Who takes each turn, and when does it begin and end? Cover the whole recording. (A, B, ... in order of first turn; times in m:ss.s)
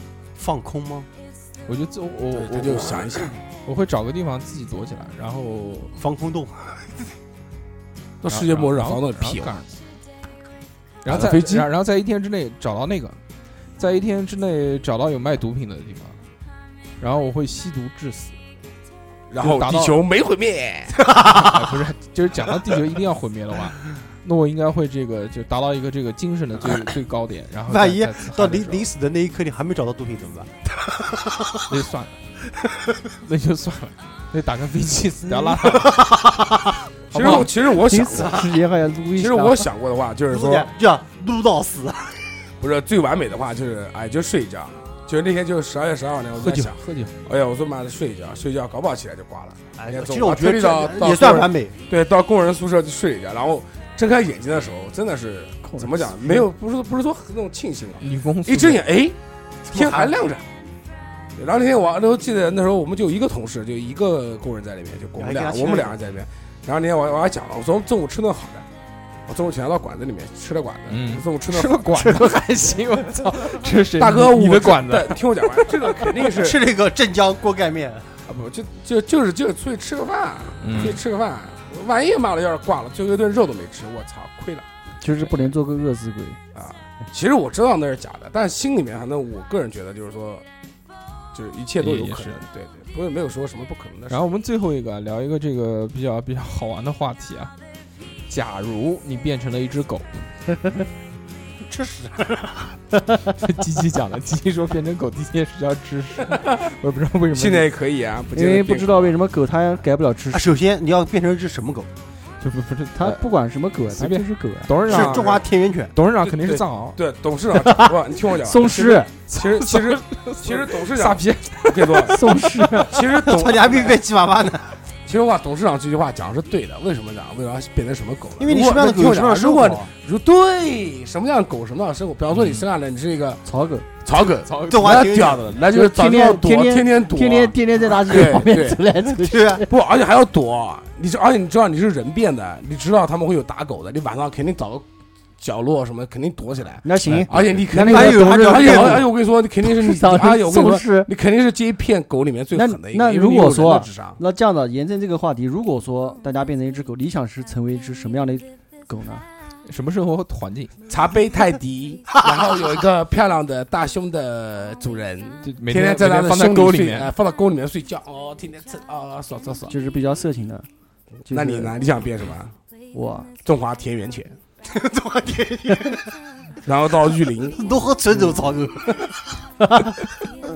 0:00.4-0:01.1 A
0:01.7-0:03.0 B
0:02.3-0:03.4 C
0:03.6-0:05.9 B
0:06.0-0:06.9 A
0:08.2-0:09.5 C
0:08.3-0:09.7 B
0:11.0-0:13.2 B
0:11.1-0:11.7 C
0:13.8-0:16.2 B
0:17.0-0:18.4 B
0:19.3-0:21.0 C
0:19.4-0:20.0 B
0:21.0-0:21.5 A
0:21.3-0:28.9 B
0:27.7-0:31.6 A
0:31.7-0:32.2 B
0:33.2-0:36.0 B
0:35.4-0:36.7 A
0:37.1-0:38.5 C
0:37.1-0:39.7 D
0:37.2-0:37.4 B
0:39.1-0:40.7 C
0:40.3-0:42.3 A
0:42.6-0:59.2 C
0:46.4-0:47.1 B
0:49.8-0:51.8 A
0:55.7-0:56.5 D
0:58.0-0:58.8 B
0:59.7-1:00.1 A
0:59.7-1:00.5 C
1:01.4-1:08.6 C
1:05.2-1:06.0 A
1:09.3-1:12.2 C
1:10.9-1:15.7 B
1:14.0-1:16.6 C
1:16.2-1:18.1 A
1:18.3-1:24.7 C
1:20.6-1:21.0 B
1:25.0-1:26.4 D
1:26.5-1:30.4 C
1:31.3-1:34.2 C
1:31.8-1:32.4 B
1:34.1-1:37.5 B
1:38.3-1:40.3 B
1:41.6-1:42.7 A
1:43.4-1:47.7 B
1:47.3-1:49.2 C
1:48.3-1:50.5 D
1:50.3-1:51.9 A
1:52.4-1:53.3 B
1:53.0-1:54.7 D
1:53.9-1:55.4 B
1:54.9-1:55.9 A
1:55.0-1:55.3 C
1:55.9-1:57.0 B
1:56.2-2:02.3 C
1:57.6-1:57.9 D
1:58.4-1:59.1 D
1:59.3-2:02.4 B
2:02.1-2:03.0 D
2:02.9-2:04.0 C
2:03.2-2:04.8 A
2:05.1-2:13.4 C
2:08.4-2:09.9 A
2:12.3-2:12.6 B
2:13.4-2:13.9 D
2:14.0-2:18.9 C
2:14.5-2:14.8 B
2:14.6-2:15.6 A
2:15.7-2:19.7 D
2:19.2-2:19.6 A
2:19.7-2:24.8 C
2:25.4-2:34.2 C
2:26.8-2:29.1 D
2:27.8-2:29.1 A
2:29.6-2:31.1 D
2:32.5-2:39.3 D
2:39.7-2:40.7 B
2:40.9-2:49.8 C
2:45.4-2:47.1 B
2:49.7-2:50.7 D
2:51.3-2:51.8 D
2:51.3-2:52.5 C
2:52.9-2:53.3 D
2:53.4-2:54.4 C
2:54.7-2:56.1 A
2:56.6-2:57.6 C
2:57.6-2:59.1 A